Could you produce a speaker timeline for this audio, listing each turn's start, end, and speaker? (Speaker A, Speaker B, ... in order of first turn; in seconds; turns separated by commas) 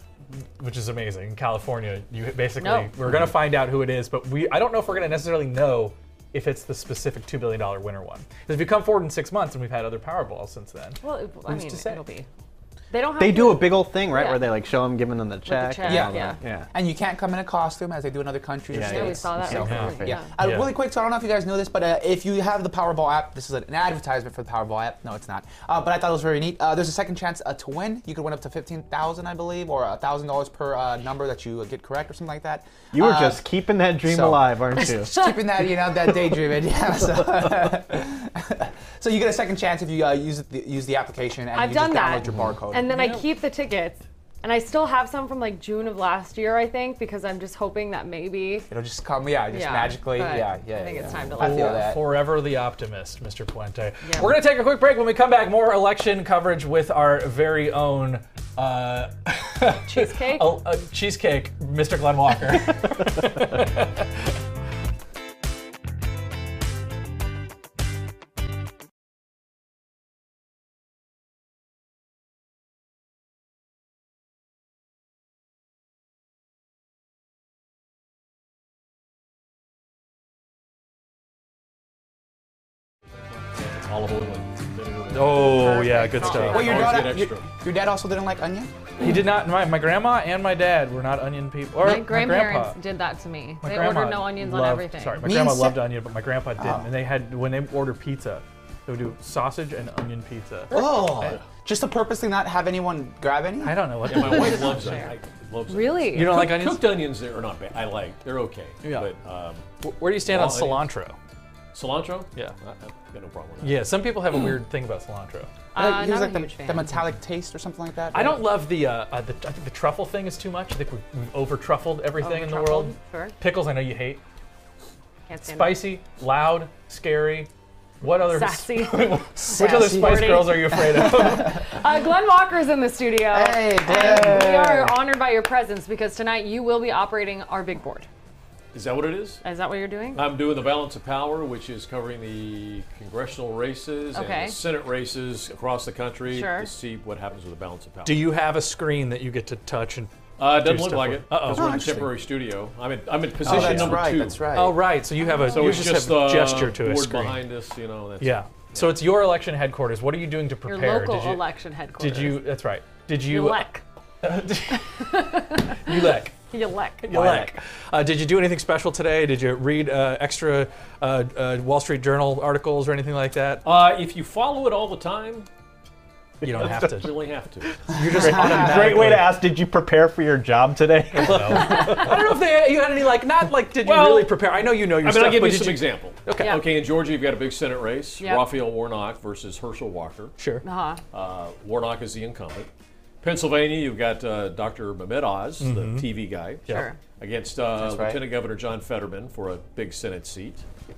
Speaker A: 0.4-12.0, Speaker B: 2.6-2.9, Speaker B: 11.0-12.3, Speaker B: 12.9-14.5, Speaker C: 13.2-16.7, Speaker B: 15.4-16.4, Speaker D: 15.8-33.5, Speaker C: 18.7-20.2, Speaker B: 18.8-20.3, Speaker A: 19.6-20.7, Speaker C: 32.9-35.1, Speaker D: 34.0-43.0, Speaker B: 34.7-35.6, Speaker B: 41.5-48.7, Speaker A: 42.9-43.2, Speaker D: 48.7-52.2, Speaker B: 49.5-51.9, Speaker A: 51.4-64.1, Speaker B: 54.0-54.4, Speaker B: 59.9-60.6, Speaker E: 83.6-87.5, Speaker A: 85.1-86.8, Speaker B: 85.5-87.0, Speaker D: 86.3-88.7, Speaker A: 89.0-92.8, Speaker B: 91.8-95.3, Speaker A: 93.6-101.4, Speaker D: 95.2-95.9, Speaker D: 96.6-96.9, Speaker D: 100.7-103.9, Speaker B: 100.7-101.0, Speaker A: 103.6-105.0, Speaker E: 104.1-109.7, Speaker B: 104.1-105.1, Speaker B: 105.7-106.5, Speaker A: 106.1-106.8, Speaker A: 108.8-109.1, Speaker A: 109.8-111.2, Speaker E: 110.2-110.9, Speaker E: 111.7-114.0, Speaker A: 113.6-115.5, Speaker B: 115.7-116.9, Speaker D: 115.7-118.4, Speaker A: 118.1-124.2, Speaker B: 122.2-123.3, Speaker B: 125.3-125.9, Speaker A: 125.4-127.5, Speaker A: 128.0-131.6, Speaker B: 128.2-138.1, Speaker D: 129.4-131.6, Speaker D: 133.3-134.9, Speaker E: 138.7-139.4, Speaker B: 139.4-140.3, Speaker E: 140.1-148.3, Speaker B: 144.1-144.6, Speaker B: 146.3-146.7, Speaker A: 148.0-152.0, Speaker E: 150.4-154.6, Speaker D: 151.5-152.1, Speaker D: 153.4-154.8, Speaker A: 153.5-154.0, Speaker A: 154.5-157.4, Speaker B: 155.2-155.8, Speaker E: 155.4-159.0, Speaker A: 158.2-161.4, Speaker B: 160.7-162.5, Speaker A: 162.0-163.7, Speaker B: 163.3-163.8, Speaker A: 164.2-166.3, Speaker B: 164.7-167.1, Speaker A: 167.0-173.7, Speaker C: 167.1-167.5, Speaker E: 173.6-175.5, Speaker A: 176.4-177.2, Speaker C: 176.5-176.8, Speaker E: 176.5-177.8, Speaker A: 177.8-179.3, Speaker C: 178.0-182.1, Speaker A: 181.2-186.6, Speaker E: 183.8-190.3, Speaker B: 186.4-186.6, Speaker B: 188.2-188.6, Speaker A: 190.4-190.6, Speaker B: 190.6-191.0, Speaker E: 191.1-192.7, Speaker E: 193.2-200.6, Speaker A: 195.6-196.1, Speaker B: 196.7-197.0, Speaker D: 197.8-198.2